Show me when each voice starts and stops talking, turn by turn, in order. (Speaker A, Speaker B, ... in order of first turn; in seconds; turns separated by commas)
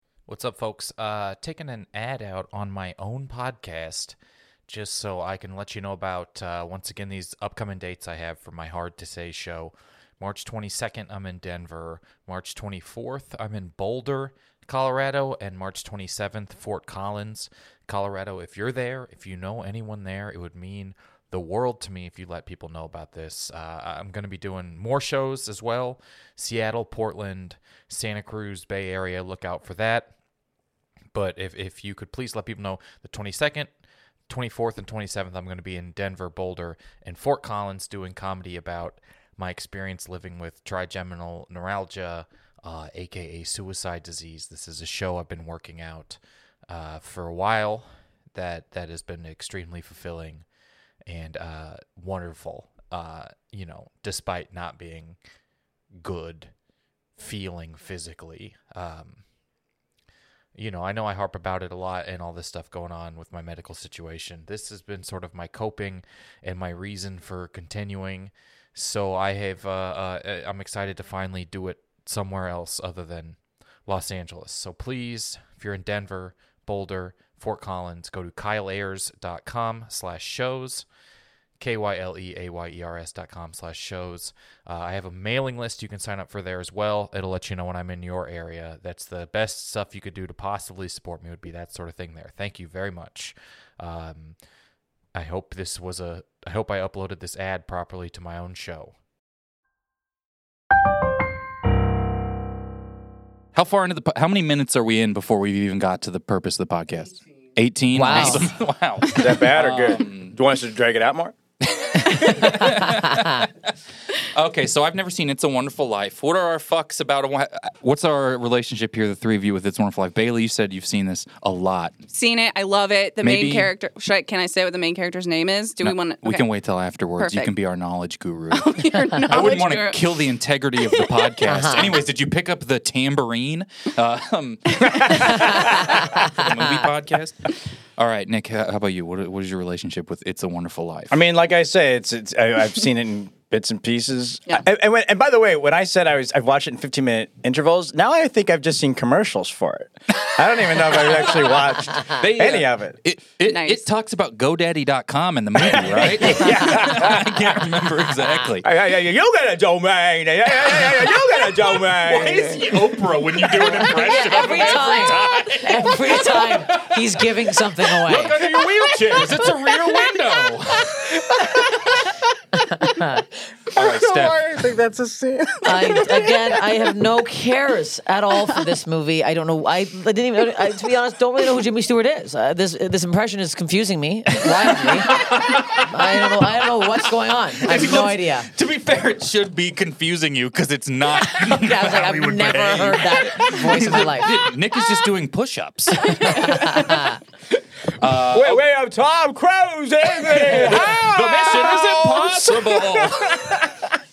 Speaker A: 0.3-30.1, Speaker A: 31.1-33.7, Speaker A: 34.3-50.5, Speaker A: 51.1-55.2, Speaker A: 56.0-56.5, Speaker A: 57.2-59.2, Speaker A: 60.5-80.9, Speaker A: 81.6-94.4, Speaker A: 95.1-98.9, Speaker B: 103.5-110.3, Speaker C: 107.9-108.5, Speaker D: 109.1-111.3, Speaker B: 111.8-113.5, Speaker B: 114.3-121.9, Speaker E: 122.1-126.5, Speaker B: 123.2-123.7, Speaker B: 125.8-141.2, Speaker E: 127.2-127.5, Speaker E: 128.5-130.2, Speaker E: 130.8-131.2, Speaker C: 131.4-132.0, Speaker C: 135.5-136.2, Speaker D: 141.1-153.0, Speaker B: 152.1-158.7, Speaker E: 153.5-153.8, Speaker D: 155.7-157.4, Speaker D: 158.6-163.9, Speaker B: 161.8-167.0, Speaker C: 163.9-168.4, Speaker B: 167.9-171.3, Speaker C: 172.7-173.2, Speaker D: 173.7-176.4, Speaker B: 173.7-174.7, Speaker C: 175.6-185.2, Speaker B: 185.1-186.2, Speaker C: 185.8-188.5, Speaker B: 187.6-197.0, Speaker C: 191.3-194.4, Speaker C: 196.6-197.2, Speaker B: 198.0-198.6, Speaker D: 198.1-203.9, Speaker B: 200.3-203.6